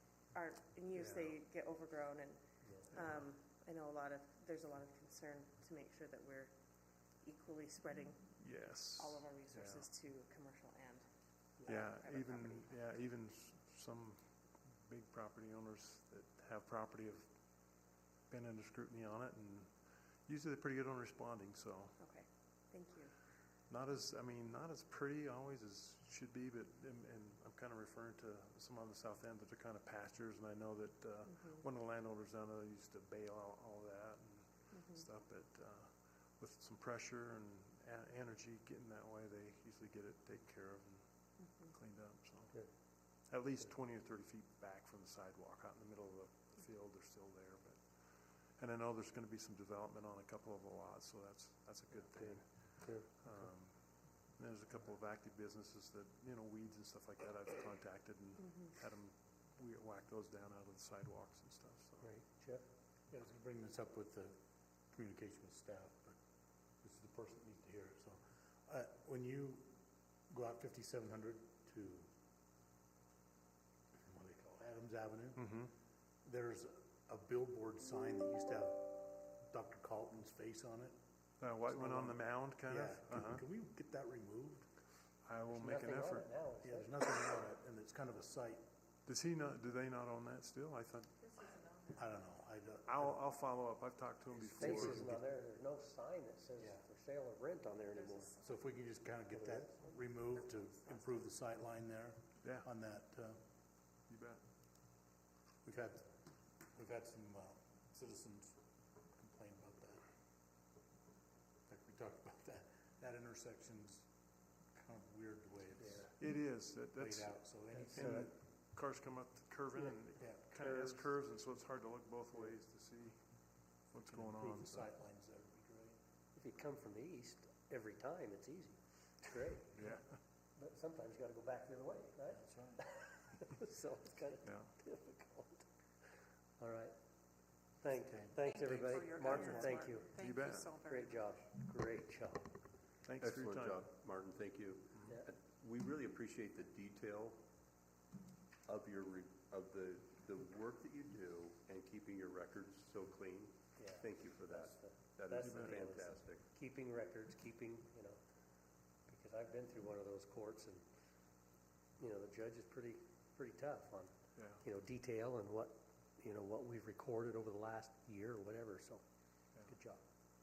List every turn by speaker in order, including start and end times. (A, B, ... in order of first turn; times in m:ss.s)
0:00.3-0:02.4 A
0:00.9-0:01.4 B
0:02.6-0:02.9 C
0:02.9-0:06.5 A
0:02.9-0:03.3 B
0:07.2-0:11.1 A
0:08.4-0:09.9 B
0:11.6-0:12.7 A
0:11.7-0:14.3 B
0:14.9-0:17.3 B
0:18.3-0:19.7 B
0:20.3-0:22.0 B
0:22.0-0:23.1 A
0:23.7-0:42.6 B
0:31.3-0:31.6 A
0:34.7-0:35.0 A
0:43.3-0:47.8 B
0:48.6-0:52.5 B
0:52.3-0:53.1 C
0:53.2-0:53.8 B
0:54.4-1:02.1 B
1:02.0-1:02.7 C
1:03.1-1:04.4 D
1:04.9-1:06.2 D
1:06.8-1:09.7 D
1:10.3-1:12.1 D
1:14.1-1:15.4 D
1:15.4-1:15.7 B
1:16.2-1:21.0 D
1:21.4-1:23.4 B
1:21.7-1:24.7 D
1:25.2-1:26.3 B
1:25.5-1:27.0 C
1:26.6-1:28.6 D
1:29.1-1:31.2 B
1:32.0-1:33.3 D
1:32.9-1:35.2 B
1:34.4-1:35.1 D
1:34.6-1:38.3 C
1:36.6-1:36.8 D
1:38.0-1:38.5 A
1:38.4-1:43.4 D
1:39.3-1:39.7 C
1:42.4-1:42.7 B
1:44.1-1:44.4 B
1:45.6-1:46.1 D
1:46.7-1:48.6 D
1:49.2-1:50.0 D
1:51.7-1:54.1 D
1:54.7-1:56.2 D
1:55.8-1:56.1 C
1:56.2-2:03.2 B
1:57.0-1:58.3 D
1:57.7-1:58.3 C
2:00.2-2:00.6 D
2:00.6-2:01.1 C
2:03.9-2:04.9 B
2:04.1-2:06.0 D
2:06.4-2:09.7 C
2:09.8-2:10.1 B
2:10.6-2:15.7 C
2:12.4-2:12.8 D
2:14.4-2:14.7 B
2:16.6-2:17.0 C
2:17.8-2:20.1 C
2:18.4-2:21.0 A
2:20.2-2:20.8 B
2:20.8-2:22.5 C
2:23.0-2:23.9 B
2:23.2-2:27.4 E
2:28.7-2:36.4 E
2:33.8-2:38.2 C
2:35.3-2:35.8 B
2:39.1-2:40.8 C
2:42.0-2:44.1 C
2:44.4-2:44.6 B
2:44.6-2:49.0 C
2:49.6-2:50.0 C